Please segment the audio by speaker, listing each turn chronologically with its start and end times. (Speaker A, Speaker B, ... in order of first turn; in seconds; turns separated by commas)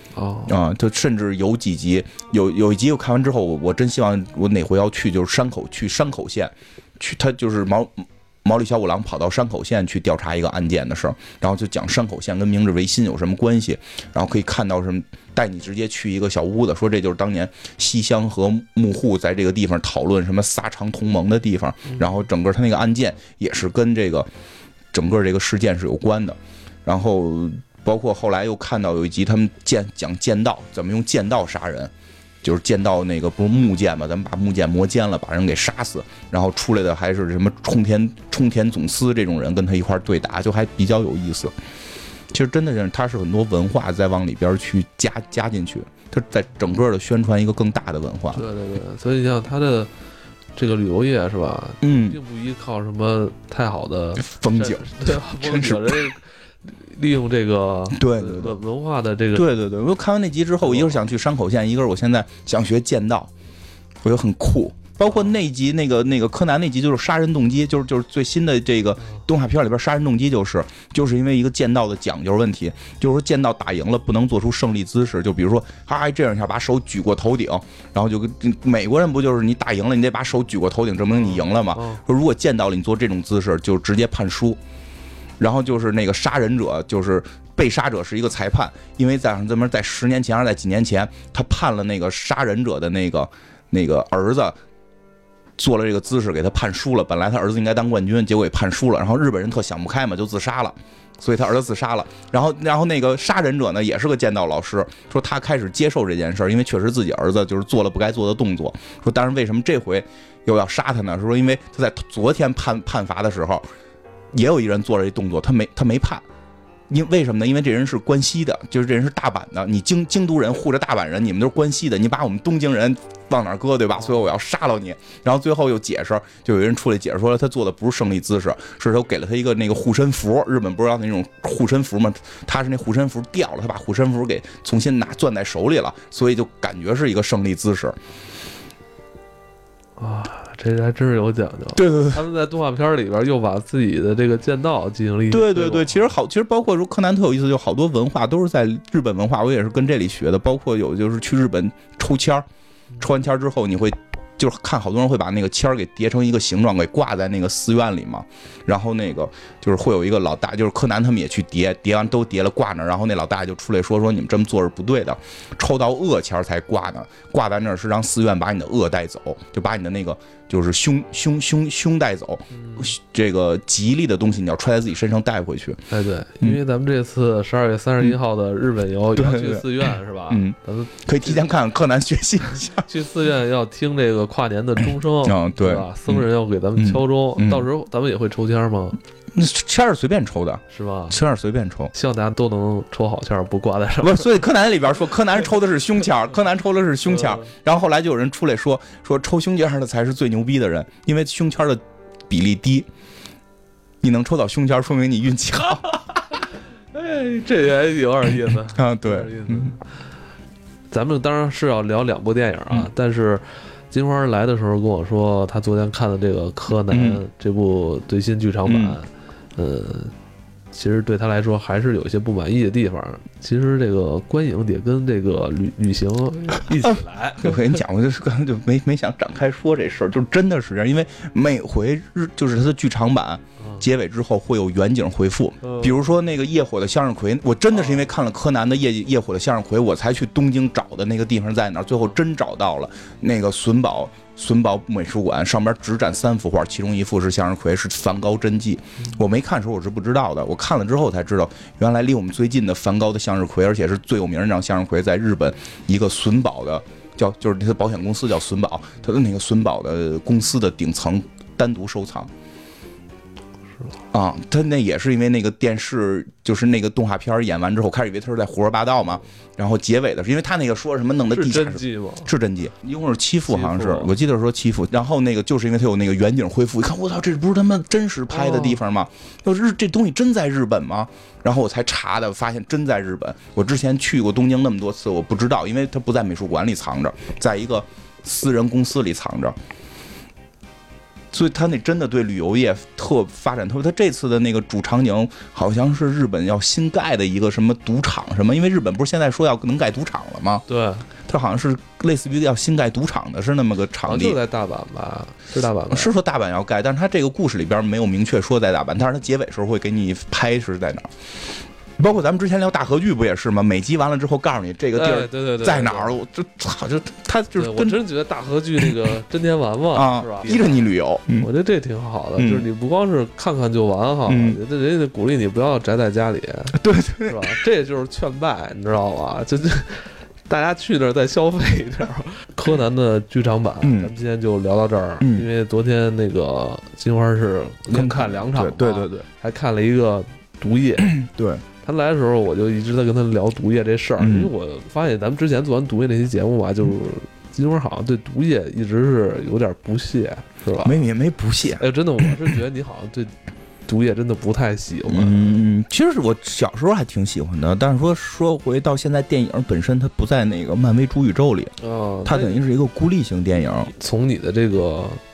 Speaker A: 0.1-0.6, Speaker B: 0.5-24.3, Speaker B: 24.9-31.9, Speaker B: 32.4-41.5, Speaker B: 42.3-48.4, Speaker A: 48.3-49.9, Speaker A: 50.6-59.5, Speaker B: 51.8-52.2, Speaker B: 54.2-56.0, Speaker B: 57.9-58.6, Speaker B: 59.4-63.3, Speaker A: 60.6-61.0, Speaker B: 64.0-84.6, Speaker A: 65.1-65.4, Speaker A: 81.2-82.0, Speaker B: 85.4-94.6, Speaker B: 95.6-113.6, Speaker B: 114.3-116.2, Speaker B: 116.9-138.0, Speaker A: 140.0-146.0, Speaker B: 141.7-142.2, Speaker B: 145.3-152.4, Speaker B: 153.0-175.8, Speaker A: 172.5-172.9, Speaker A: 175.9-181.4, Speaker B: 179.2-182.9, Speaker A: 182.8-189.0, Speaker B: 185.2-187.7, Speaker B: 189.3-191.9, Speaker A: 190.7-191.2, Speaker A: 191.9-194.4, Speaker B: 194.0-202.9, Speaker A: 197.1-197.5, Speaker B: 204.0-205.9, Speaker A: 206.9-209.8, Speaker B: 208.7-209.8, Speaker A: 210.9-220.1, Speaker B: 216.9-217.2, Speaker B: 218.7-219.0, Speaker A: 220.7-227.6, Speaker B: 227.4-262.3, Speaker A: 233.6-233.8, Speaker A: 235.6-236.0, Speaker A: 237.8-238.1, Speaker B: 264.1-289.6, Speaker A: 271.3-272.3, Speaker A: 273.5-274.1, Speaker A: 278.3-278.8, Speaker B: 291.3-300.6, Speaker A: 300.7-301.1, Speaker B: 301.2-304.4, Speaker A: 304.1-306.1, Speaker B: 305.9-318.0, Speaker A: 314.9-316.2, Speaker A: 317.6-320.8, Speaker B: 319.9-321.5, Speaker A: 321.4-341.2, Speaker B: 322.4-322.7, Speaker B: 324.3-324.6, Speaker B: 326.7-327.4, Speaker B: 333.8-334.1, Speaker B: 335.2-335.5, Speaker B: 337.9-339.2, Speaker B: 341.1-341.6, Speaker A: 341.8-351.0, Speaker B: 344.2-344.5, Speaker B: 350.8-351.8, Speaker A: 351.8-353.3, Speaker A: 353.9-355.6, Speaker B: 355.1-361.7, Speaker A: 361.8-362.6, Speaker B: 362.2-363.9, Speaker A: 363.9-365.2